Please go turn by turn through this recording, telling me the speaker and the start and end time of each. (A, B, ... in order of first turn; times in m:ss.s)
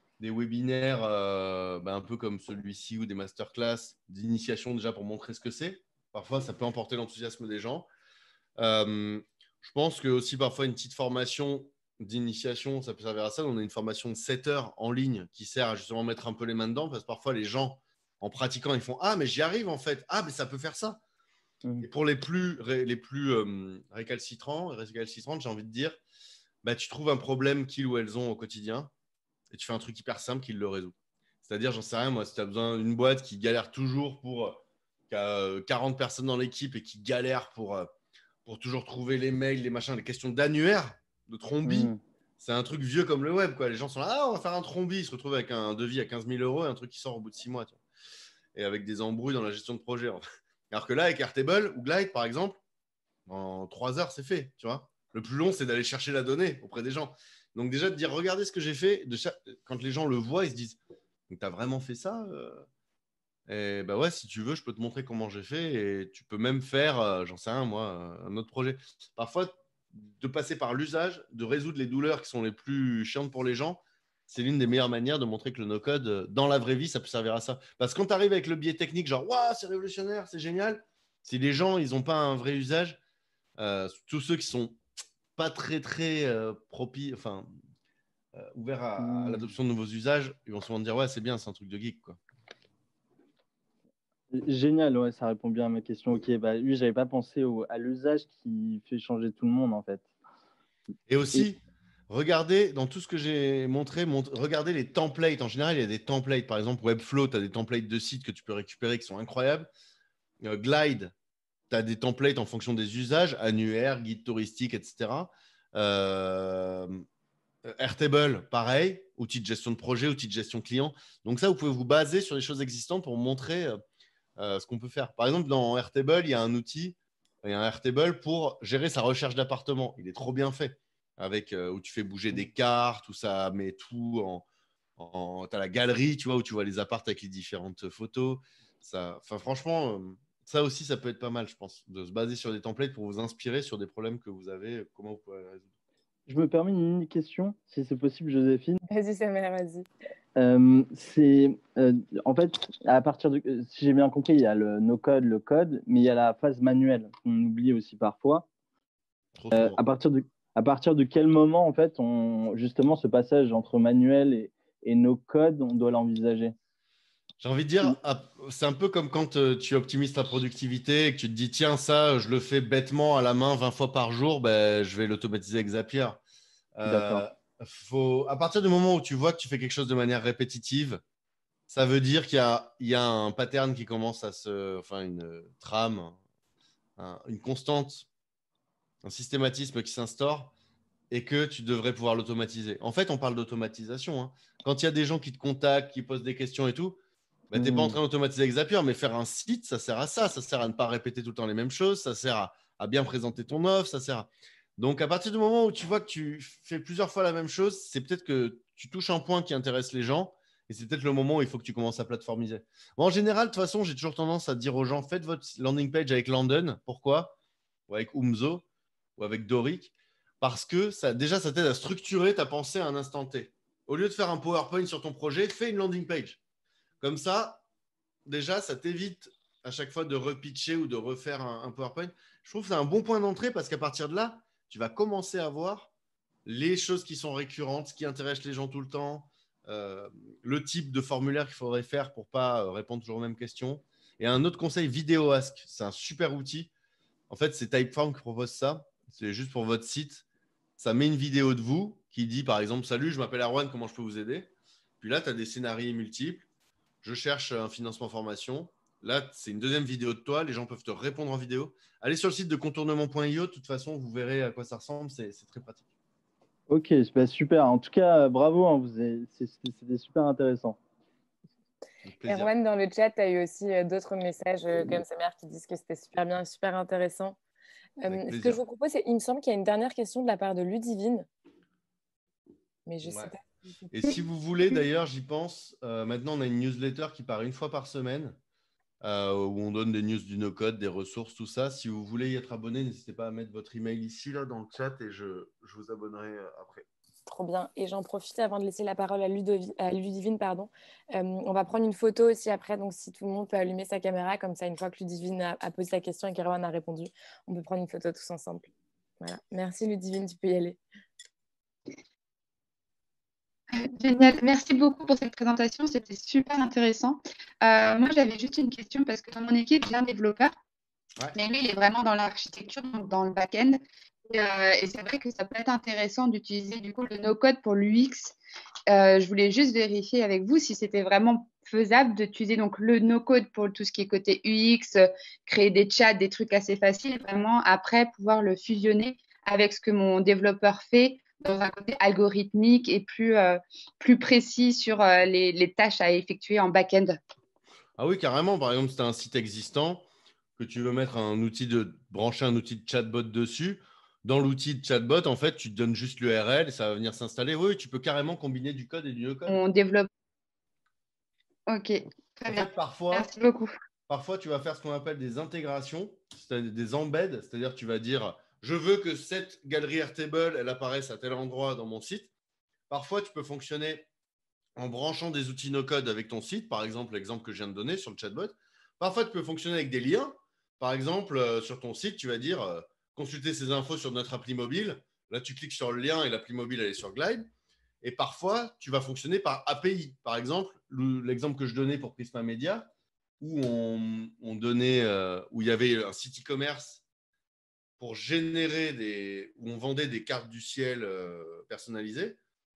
0:00.2-0:07.9 A
0:08.6-0:21.0 A
0:21.8-0:26.0 A
0:26.6-0:28.9 A
0:29.5-0:37.9 A
0:38.4-0:47.8 A
0:41.6-0:42.0 B
0:48.5-0:52.6 A
0:53.2-1:02.6 A
1:03.5-1:23.0 A
1:23.6-1:24.8 A
1:25.4-1:27.5 A
1:28.3-1:32.2 A
1:29.0-1:29.5 B
1:34.3-1:40.1 B
1:41.1-1:49.7 A
1:50.4-1:51.1 A
1:51.7-1:57.0 A
1:57.6-2:03.8 A
2:04.4-2:14.4 A
2:15.0-2:25.7 A
2:26.3-2:28.8 B
2:28.9-2:29.9 C
2:30.4-2:38.4 B
2:39.3-2:39.8 A
2:39.5-2:46.5 B
2:47.4-2:56.2 A
2:56.8-3:01.0 A
2:56.8-2:57.2 B
3:01.7-3:06.2 A
3:07.0-3:08.1 A
3:09.0-3:10.5 A
3:11.1-3:37.4 A
3:17.5-3:18.0 B
3:37.9-3:38.6 A
3:39.2-3:46.4 A
3:47.0-3:47.6 A
3:48.2-3:55.9 A
3:56.4-4:06.7 A
4:07.3-4:10.2 A
4:10.8-4:16.5 A
4:17.0-4:25.9 A
4:26.7-4:30.8 B
4:32.0-4:32.5 A
4:32.3-4:37.4 C
4:38.0-4:41.3 C
4:38.1-4:38.6 A
4:42.8-4:44.1 C
4:43.0-4:43.3 A
4:43.9-4:48.4 A
4:49.0-4:56.8 A
4:57.2-5:08.7 C
5:09.2-5:10.8 C
5:13.7-5:20.5 D
5:21.3-5:28.4 D
5:28.9-5:47.2 D
5:48.0-5:50.0 A
5:50.6-5:59.6 A
5:59.5-6:00.1 D
6:01.7-6:03.7 D
6:02.5-6:03.3 A
6:04.1-6:12.3 A
6:12.9-6:14.1 A
6:14.8-6:27.5 A
6:28.0-6:37.0 A
6:38.0-6:42.4 A